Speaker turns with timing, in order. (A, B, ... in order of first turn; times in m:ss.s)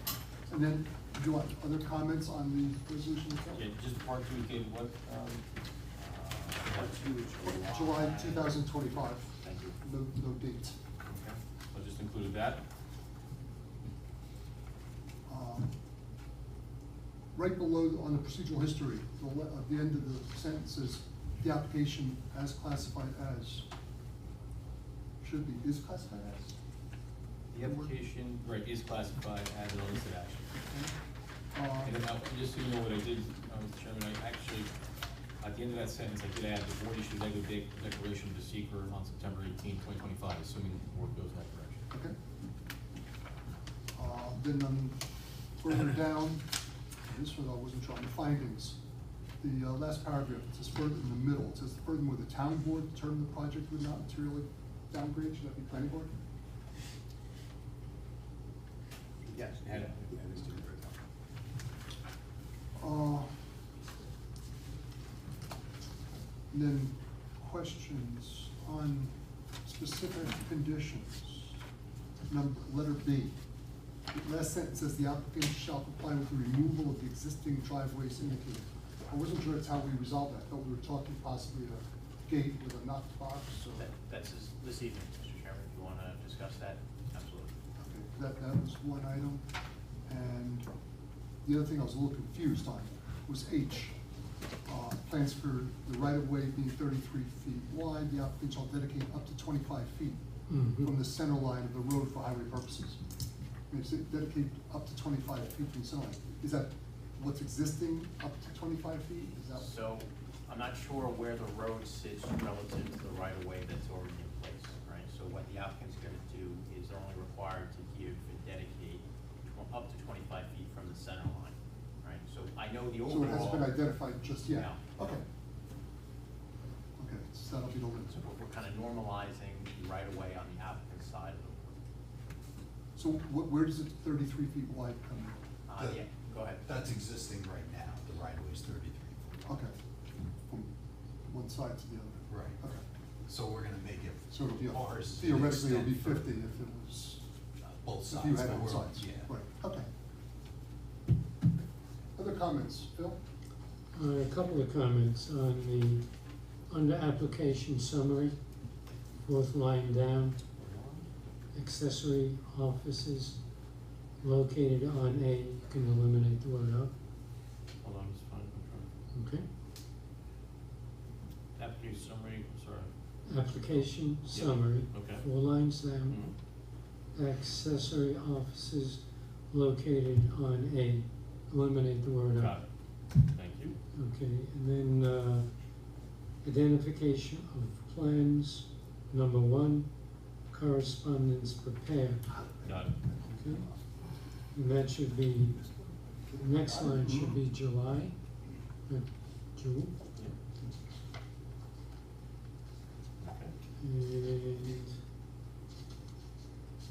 0:00.5-0:03.6 A
0:03.5-0:05.4 B
0:06.0-0:08.6 C
0:07.4-0:10.8 A
0:09.4-0:09.8 C
0:11.0-0:12.6 B
0:15.3-0:15.7 A
0:17.3-0:23.7 A
0:25.2-0:26.6 A
0:27.5-0:30.9 B
0:27.6-0:28.0 A
0:31.5-0:32.0 A
0:31.8-0:34.7 B
0:35.4-0:41.8 B
0:43.9-0:45.0 A
0:45.6-0:46.5 A
0:47.0-0:48.8 A
0:49.4-0:56.1 A
0:59.4-0:59.6 C
0:59.6-1:00.6 B
1:02.8-1:03.3 A
1:06.5-1:09.1 A
1:09.6-1:11.6 A
1:12.3-1:13.4 A
1:14.1-1:23.9 A
1:23.8-1:27.5 C
1:27.8-1:29.4 A
1:30.1-1:30.7 A
1:31.4-1:33.9 A
1:34.6-1:40.2 A
1:40.5-1:40.9 D
1:40.8-1:43.0 A
1:43.7-1:49.7 A
1:49.6-2:03.8 C
2:03.0-2:05.2 A
2:04.4-2:05.2 C
2:07.0-2:08.2 A
2:08.1-2:11.8 C
2:13.0-2:15.4 A
2:15.7-2:16.8 C
2:15.8-2:16.1 E
2:16.6-2:19.6 E
2:19.5-2:19.8 A
2:21.3-2:22.8 A
2:22.3-2:22.6 E
2:23.3-2:26.3 E
2:24.3-2:27.2 A
2:27.6-2:29.3 E
2:28.0-2:29.9 A
2:32.2-2:33.2 A
2:33.9-2:36.0 D
2:36.7-2:38.3 D
2:39.2-2:40.4 D
2:40.6-2:41.0 B
2:41.5-2:43.4 D
2:44.2-2:46.9 D
2:47.8-2:48.9 B
2:49.1-2:49.4 D
2:51.6-2:52.9 B
2:53.3-2:56.2 D
2:54.3-2:55.2 B
2:56.1-2:56.3 B
2:57.1-3:02.5 D
3:02.4-3:02.6 B
3:03.2-3:03.8 B
3:03.9-3:05.5 D
3:06.4-3:09.9 D
3:10.5-3:12.2 D
3:12.6-3:13.0 B
3:12.8-3:13.6 E
3:13.4-3:13.7 D
3:14.5-3:15.6 D
3:16.3-3:17.4 A
3:16.4-3:18.1 D
3:18.9-3:19.9 D
3:23.2-3:23.5 B
3:23.8-3:25.0 D